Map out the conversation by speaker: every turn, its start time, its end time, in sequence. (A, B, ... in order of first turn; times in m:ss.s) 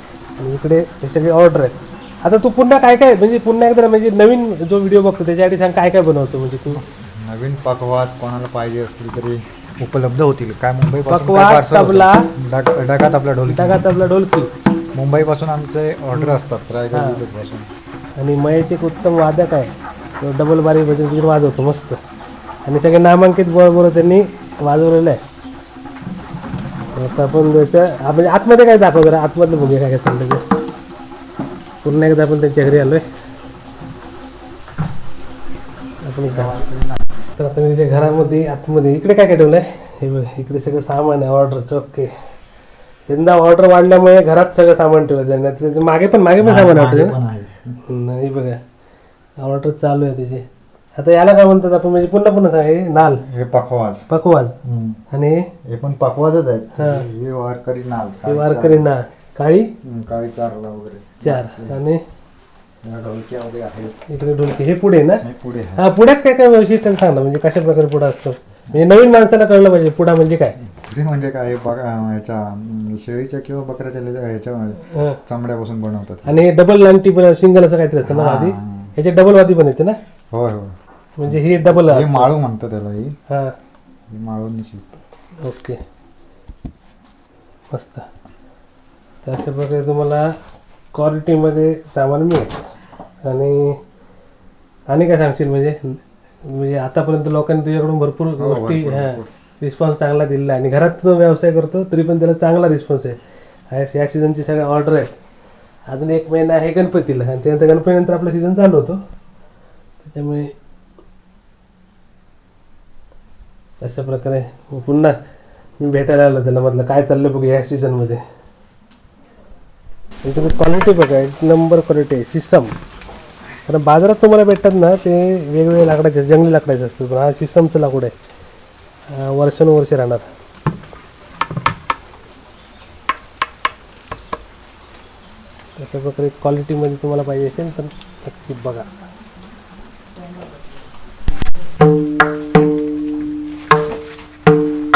0:00.4-0:06.8 A
0:06.7-0:13.9 B
0:11.1-0:12.3 A
0:13.5-0:14.5 A
0:14.9-0:17.7 B
0:16.9-0:17.2 A
0:18.2-0:22.0 A
0:22.6-0:25.2 A
0:26.9-0:30.4 A
0:31.8-0:33.0 A
0:36.0-0:36.6 A
0:36.2-0:37.2 B
0:37.4-0:42.1 A
0:43.1-0:47.2 A
0:46.4-0:47.8 B
0:47.9-0:48.6 A
0:49.4-0:53.2 A
0:53.1-0:54.1 B
0:54.1-0:54.6 A
0:54.6-0:55.0 B
0:55.1-0:55.5 A
0:55.7-0:58.9 B
0:56.8-0:57.1 A
0:58.3-0:59.7 A
0:59.8-1:01.8 B
1:01.2-1:02.0 A
1:02.8-1:04.0 B
1:04.1-1:10.6 A
1:05.2-1:05.8 B
1:10.6-1:16.4 B
1:14.9-1:15.2 A
1:16.2-1:20.0 A
1:18.0-1:18.9 B
1:20.3-1:20.7 B
1:21.2-1:22.3 A
1:21.2-1:23.2 B
1:23.3-1:23.6 A
1:24.1-1:25.0 B
1:25.4-1:25.8 A
1:27.7-1:28.1 A
1:29.2-1:30.3 A
1:30.9-1:32.6 A
1:33.2-1:33.8 A
1:34.9-1:43.2 A
1:38.4-1:39.3 B
1:43.7-1:45.1 A
1:45.9-1:49.0 A
1:50.0-1:50.5 A
1:53.8-1:55.2 A
1:55.8-1:58.2 A
2:00.2-2:02.7 A
2:03.7-2:08.1 A
2:09.1-2:10.3 A
2:15.8-2:18.9 A